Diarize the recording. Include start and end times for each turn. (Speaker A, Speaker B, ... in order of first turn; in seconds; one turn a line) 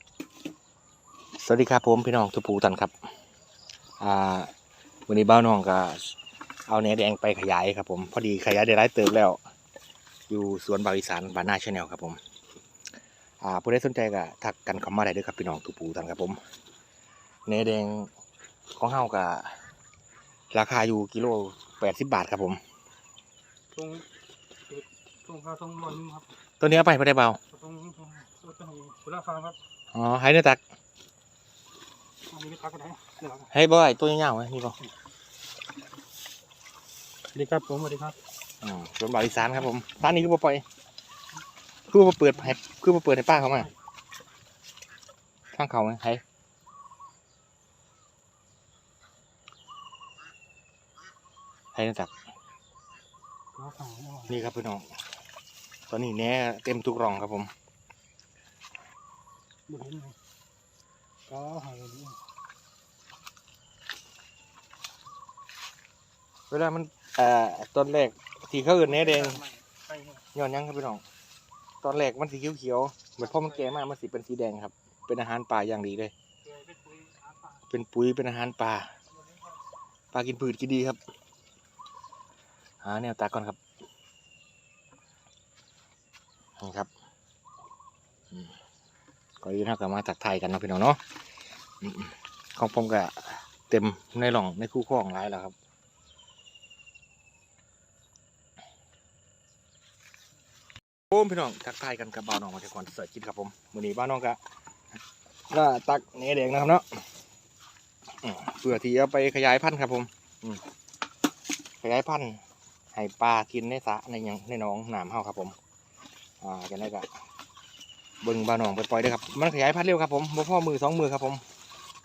Speaker A: 1.4-2.9
Speaker A: 4.0-4.5
Speaker A: 5.1-9.4
Speaker A: 10.3-12.2
Speaker A: 13.4-16.4
Speaker A: 17.5-18.1
Speaker A: 18.8-19.6
Speaker A: 20.5-22.6
Speaker B: 23.8-24.1
Speaker B: 24.7-26.3
Speaker A: 26.6-27.4
Speaker B: 27.6-29.6
Speaker A: 29.9-30.6
Speaker B: 32.3-33.4
Speaker A: 33.5-34.8
Speaker B: 37.3-38.2
Speaker A: 38.6-40.6
Speaker A: 41.9-43.7
Speaker A: 45.5-46.2
Speaker A: 51.7-52.1
Speaker B: 53.6-54.3
Speaker A: 54.3-54.9
Speaker A: 55.9-57.5
Speaker B: 59.7-60.1
Speaker B: 61.3-62.2
Speaker A: 66.5-69.5
Speaker B: 69.5-70.1
Speaker A: 70.3-71.0
Speaker A: 71.8-76.1
Speaker B: 76.5-77.3
Speaker A: 77.6-78.9
Speaker A: 80.1-81.0
Speaker A: 82.8-83.6
Speaker A: 86.6-86.9
Speaker A: 89.4-91.0
Speaker A: 91.8-95.5
Speaker A: 101.1-104.4
Speaker A: 105.5-107.0
Speaker A: 108.2-110.6
Speaker A: 111.8-112.4
Speaker A: 112.9-115.6
Speaker A: 116.4-117.1
Speaker A: 118.2-121.4